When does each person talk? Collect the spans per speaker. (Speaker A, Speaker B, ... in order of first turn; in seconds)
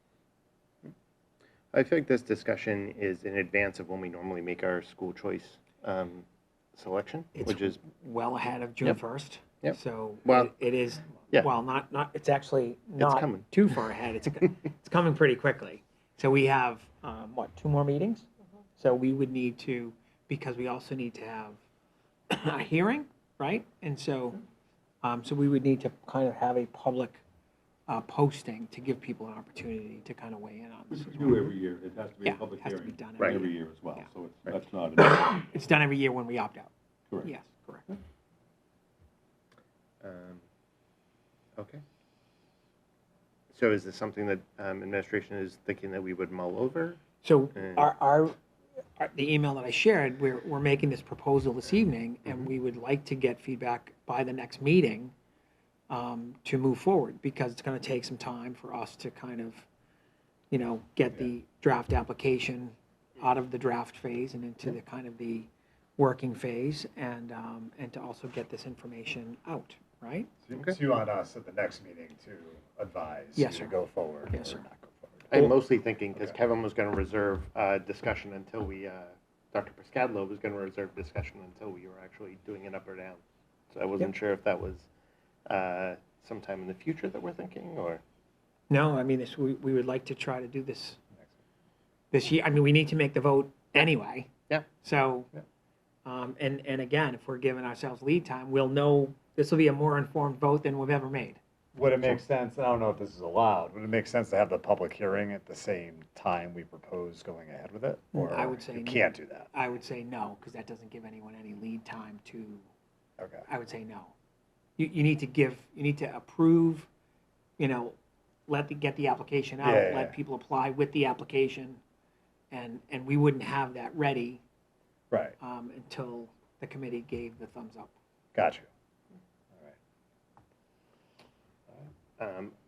Speaker A: 1.7-7.8, 9.6-10.5, 13.0-13.6, 40.0-40.4, 43.5-47.0, 47.5-47.9, 75.3-84.9, 85.5-88.0, 132.2-132.5
Speaker B: 7.3-21.6, 22.3-24.4, 25.0-27.2, 27.9-31.5, 32.2-34.1, 35.0-36.7, 37.2-37.9, 47.2-48.4, 49.0-55.1, 55.9-59.7, 60.5-70.3, 73.3-73.8, 74.3-74.6, 88.7-91.0, 92.1-95.3, 96.0-101.4, 108.1-112.7, 113.5-114.1, 114.8-116.9, 117.6-118.0, 118.5-121.8, 122.5-124.4, 125.4-127.9
Speaker C: 30.9-35.5
Speaker D: 70.4-75.4, 101.8-109.5, 113.2-113.5, 119.6-120.2, 128.3-128.7